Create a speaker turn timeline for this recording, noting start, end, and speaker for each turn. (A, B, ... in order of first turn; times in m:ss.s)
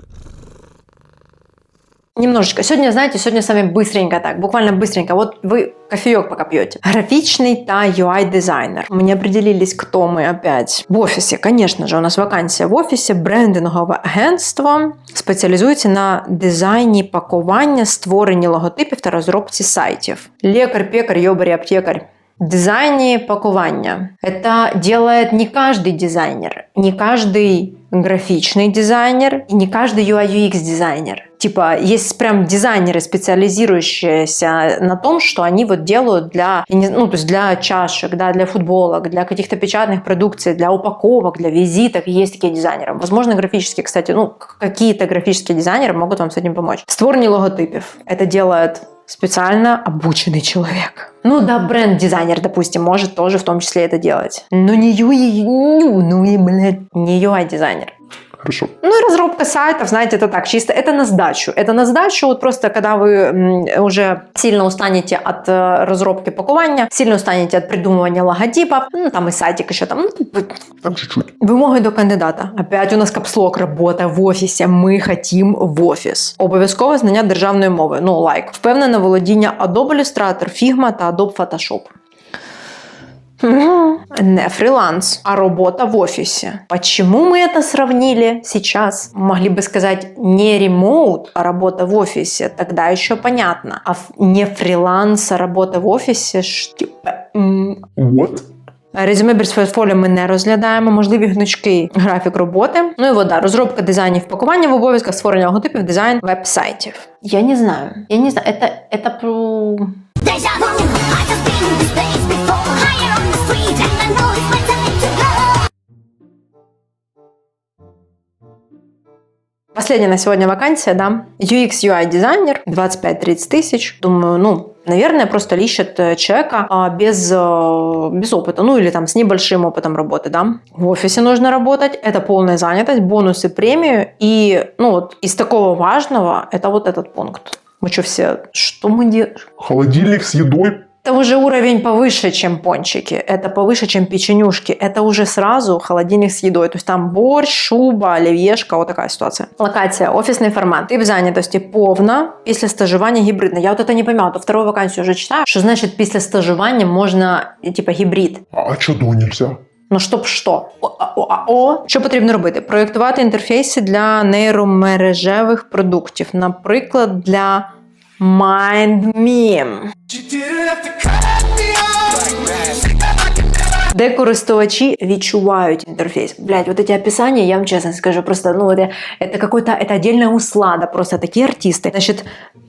0:02.2-0:57.9 A
0:58.4-0:58.7 B
0:58.8-1:10.6 A
1:10.8-1:11.3 B
1:11.4-1:21.9 A
1:23.4-1:37.9 A
1:38.0-1:38.4 B
1:38.9-1:50.0 A
1:50.2-1:55.5 C
1:59.7-2:19.5 A
2:19.6-2:20.8 B
2:21.0-2:38.4 A
2:38.5-2:39.6 B
2:39.9-2:50.8 A
2:53.9-3:02.3 A